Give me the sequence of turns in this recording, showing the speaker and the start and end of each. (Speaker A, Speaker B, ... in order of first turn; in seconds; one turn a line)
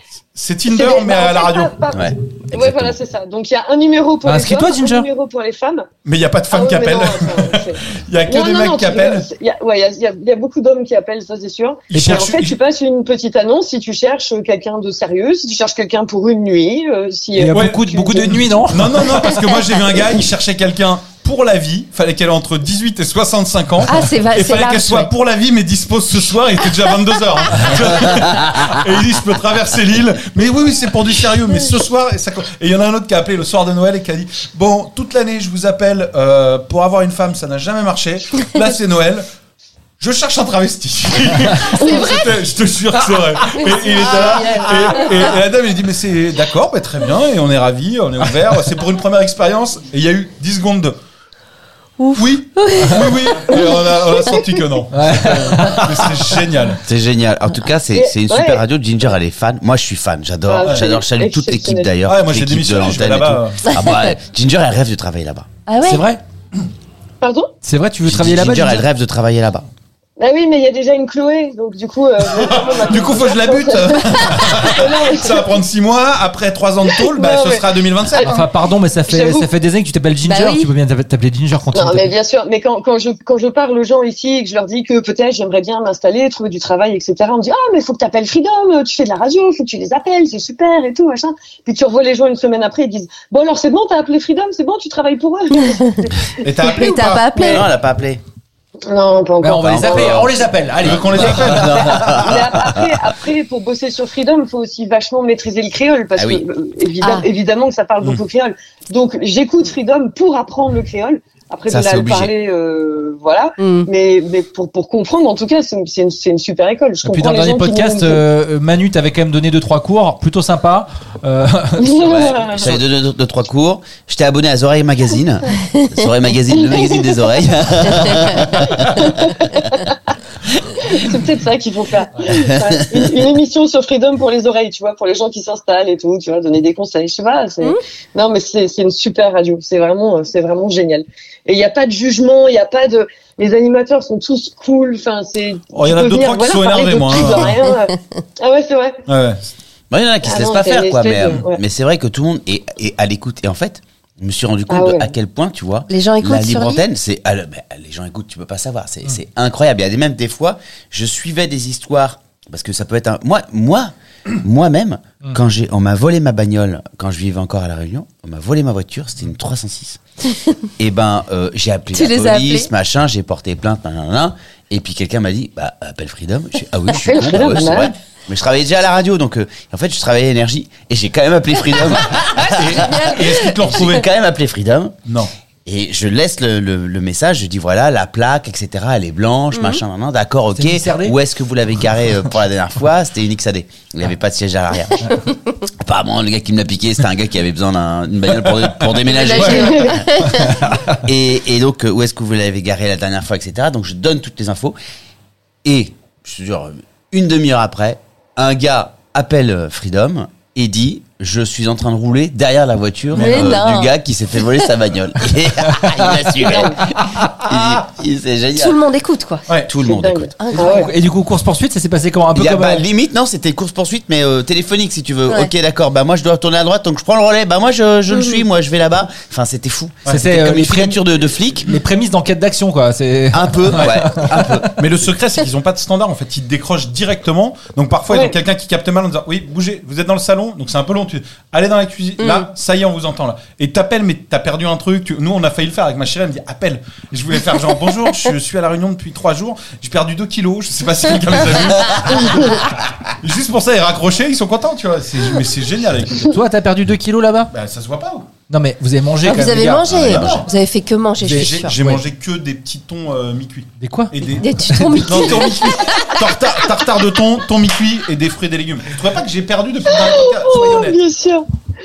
Speaker A: 0.3-1.8
Speaker B: 0.7-5.9
Speaker C: 1.9-3.0
Speaker D: 4.2-5.1
Speaker A: 6.0-9.3
Speaker B: 6.5-18.6
Speaker A: 11.9-12.6
Speaker D: 11.9-12.2
Speaker D: 17.4-19.2
Speaker A: 17.5-39.2
Speaker E: 23.9-25.1
Speaker A: 40.0-51.0
Speaker E: 43.6-45.3
Speaker E: 52.0-53.8
Speaker A: 52.1-56.8
Speaker D: 54.9-56.2
Speaker C: 56.8-65.5
Speaker B: 57.9-58.6
Speaker B: 60.5-61.9
Speaker A: 62.0-63.6
Speaker E: 63.7-64.1
Speaker E: 65.7-66.0
Speaker D: 65.8-66.2
Speaker B: 67.2-67.5
Speaker D: 67.6-68.9
Speaker C: 68.0-69.6
Speaker B: 70.2-75.5
Speaker A: 72.3-78.3
Speaker B: 76.9-77.7
Speaker D: 78.2-82.1
Speaker B: 79.1-79.5
Speaker E: 80.2-80.7
Speaker B: 81.7-96.9
Speaker A: 96.4-97.3
Speaker E: 96.6-97.7
Speaker B: 97.4-97.6
Speaker C: 97.4-98.2
Speaker B: 98.9-100.2
Speaker D: 99.4-101.9
Speaker C: 99.6-103.0
Speaker A: 100.8-102.2
Speaker B: 102.1-118.2
Speaker C: 106.2-106.4
Speaker E: 107.0-107.3
Speaker C: 111.7-112.3
Speaker E: 113.6-113.9
Speaker D: 117.0-122.3
Speaker B: 121.8-122.8
Speaker C: 122.0-129.5
Speaker B: 126.6-127.1
Speaker E: 128.0-128.5
Speaker B: 129.0-129.4
Speaker B: 130.8-149.0
Speaker C: 132.3-133.1
Speaker A: 145.7-147.5
Speaker A: 149.1-149.4
Speaker C: 149.9-170.0
Speaker B: 150.2-151.6
Speaker B: 154.7-155.1
Speaker E: 155.9-156.8
Speaker C: 170.8-183.0
Speaker E: 171.9-172.7
Speaker B: 177.1-177.9
Speaker E: 181.9-183.9
Speaker A: 182.4-184.1
Speaker C: 183.7-184.9
Speaker C: 185.7-195.1
Speaker E: 189.5-189.8
Speaker D: 190.5-191.2
Speaker C: 195.8-200.1
Speaker A: 198.4-200.8
Speaker E: 199.1-200.6
Speaker B: 199.4-199.9
Speaker C: 201.0-204.8
Speaker C: 205.6-218.8
Speaker A: 213.1-213.6
Speaker E: 213.2-213.9
Speaker D: 215.7-216.0
Speaker B: 216.4-216.8
Speaker A: 217.5-217.7
Speaker E: 218.6-219.5
Speaker C: 219.7-220.3
Speaker B: 219.8-220.9
Speaker E: 220.4-220.9
Speaker D: 220.5-222.9
Speaker C: 222.3-231.7
Speaker E: 228.1-228.4
Speaker D: 230.1-231.0
Speaker D: 231.6-234.7
Speaker C: 233.3-234.8
Speaker A: 234.8-252.7
Speaker B: 238.1-238.3
Speaker E: 242.2-242.5
Speaker A: 253.2-256.4
Speaker D: 256.3-257.5
Speaker A: 257.5-258.3
Speaker D: 258.5-259.9
Speaker E: 259.2-261.7
Speaker C: 259.8-260.4
Speaker A: 260.0-260.4
Speaker D: 261.2-262.0
Speaker A: 261.3-271.0
Speaker D: 263.8-264.1
Speaker E: 264.4-266.2
Speaker D: 264.7-265.2
Speaker B: 269.9-271.4